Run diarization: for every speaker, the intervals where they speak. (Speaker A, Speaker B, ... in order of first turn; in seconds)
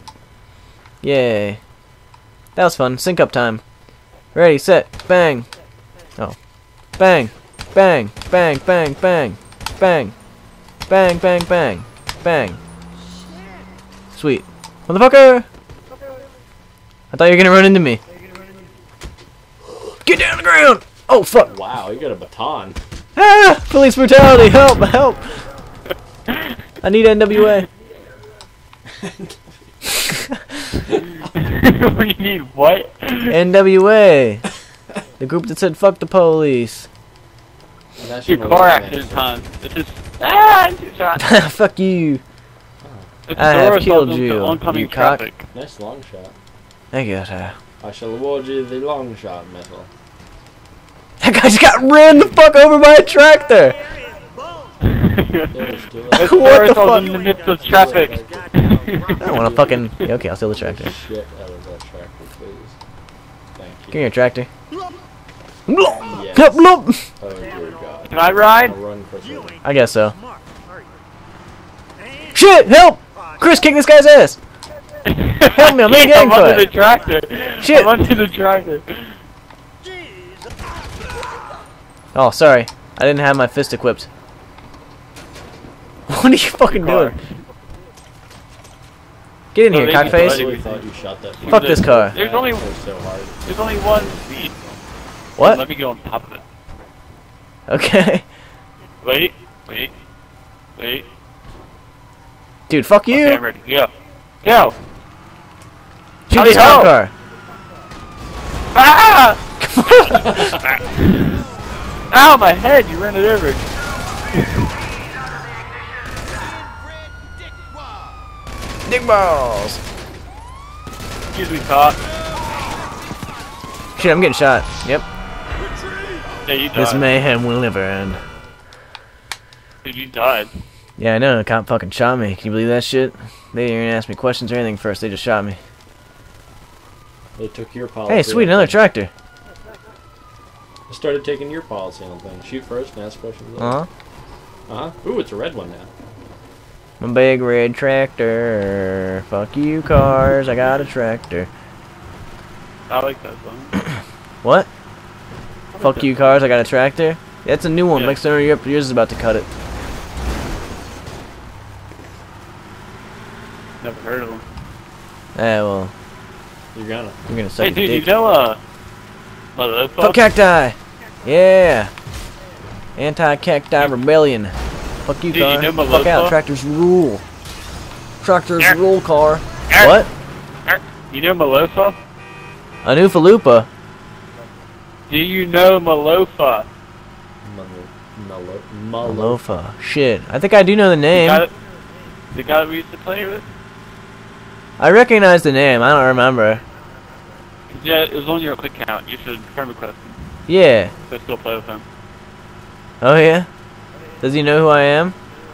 Speaker A: 1.0-1.6, 2.6-3.6, 4.3-5.5, 7.0-10.1, 10.9-12.6, 14.1-15.5, 17.1-18.0, 20.1-21.5, 23.2-25.4, 26.8-27.7, 30.1-30.7, 33.3-34.4, 35.2-36.9, 41.2-42.2, 43.4-45.2, 46.9-47.6, 51.2-53.8, 56.2-57.1, 59.2-60.9, 63.9-64.5, 65.7-67.1, 69.6-70.2, 72.3-74.4, 75.5-76.7, 77.6-77.9, 82.2-84.1, 86.1-87.2, 89.5-90.5, 91.5-92.2, 95.4-95.6, 97.7-98.2, 102.7-103.4, 106.3-107.1, 109.6-110.5, 118.8-119.8, 124.0-125.0, 126.7-128.2, 131.0-135.6, 138.1-139.1, 143.6-143.9, 147.0-151.5, 154.4-154.7, 155.8-159.5, 165.3-165.9, 167.3-168.1, 170.0-171.9, 173.0-174.5, 175.1-177.2, 178.2-180.1, 182.8-183.7, 189.0-191.4, 194.8-196.6, 200.5-200.9, 203.0-203.5, 204.2-205.2
Speaker B: 21.4-22.8, 29.0-29.4, 38.0-39.3, 42.8-43.1, 45.5-46.4, 47.8-49.9, 55.5-58.5, 59.2-62.8, 63.6-64.0, 66.0-66.7, 67.2-69.6, 89.9-94.2, 137.4-138.8, 140.9-143.8, 144.7-145.9, 166.7-167.2, 187.4-189.4
Speaker C: 26.3-26.6, 31.2-33.4, 38.3-41.2, 43.3-45.5, 54.8-59.4, 68.1-68.8, 75.0-79.2, 86.7-87.2, 89.7-90.8, 91.4-92.7, 93.5-94.5, 95.4-96.4, 99.0-99.9, 100.8-101.1, 103.1-103.9, 104.4-104.8, 106.3-106.9, 108.7-111.4, 112.1-113.7, 114.3-114.7, 121.3-122.0, 126.5-127.1, 129.8-130.5, 152.9-153.8, 155.7-156.3, 163.8-164.4, 167.6-168.6, 169.6-170.2, 175.3-176.4, 179.7-180.0, 180.7-182.0, 185.1-186.7, 191.1-191.5, 192.3-193.5, 197.7-200.4, 201.1-201.8